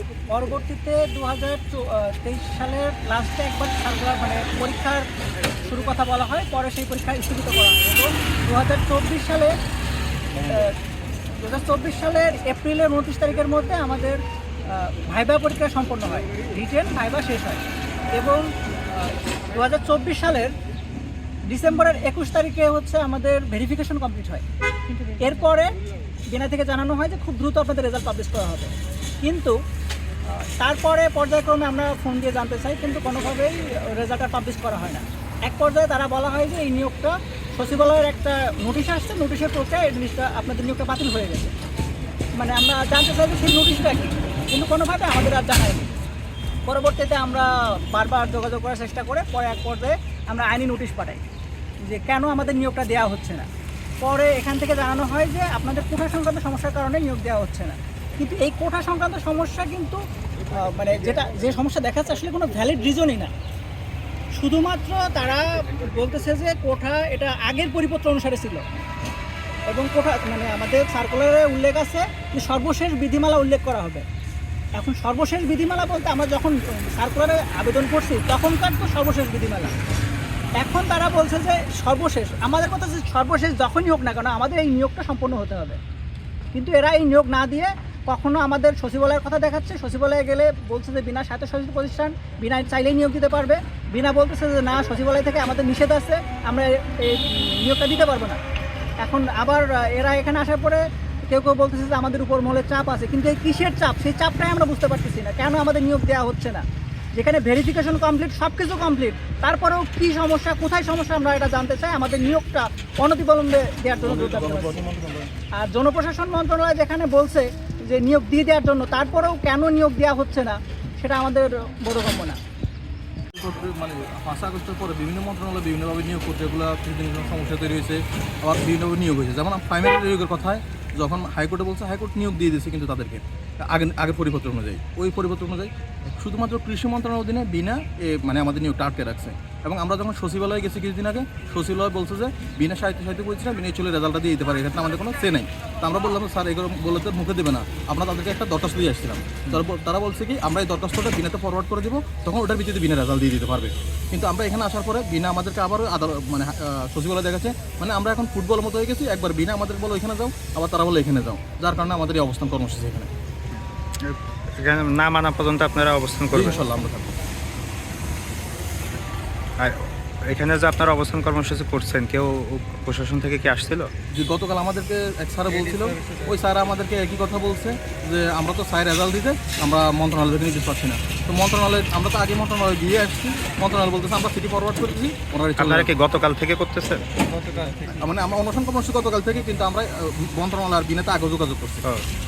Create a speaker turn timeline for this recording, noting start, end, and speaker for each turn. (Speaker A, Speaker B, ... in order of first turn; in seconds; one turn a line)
Speaker A: 0.3-5.0
Speaker A: 5.6-9.5
Speaker A: 10.4-10.7
Speaker A: 11.4-17.6
Speaker A: 18.2-20.5
Speaker A: 21.4-24.4
Speaker A: 25.1-25.8
Speaker A: 26.3-29.6
Speaker A: 30.3-41.5
Speaker A: 42.4-46.1
Speaker A: 46.7-51.2
Speaker A: 51.8-53.5
Speaker A: 54.0-63.3
Speaker A: 64.4-68.7
Speaker A: 69.7-74.0
Speaker A: 74.8-79.8
Speaker A: 80.6-85.8
Speaker A: 86.5-98.4
Speaker A: 99.0-114.8
Speaker B: 114.0-115.3
Speaker A: 115.6-122.4
Speaker B: 123.3-163.1
Speaker C: 163.5-166.7
Speaker B: 166.3-167.1
Speaker C: 169.6-173.9
Speaker B: 174.1-185.9
Speaker C: 185.6-187.1
Speaker B: 187.7-191.9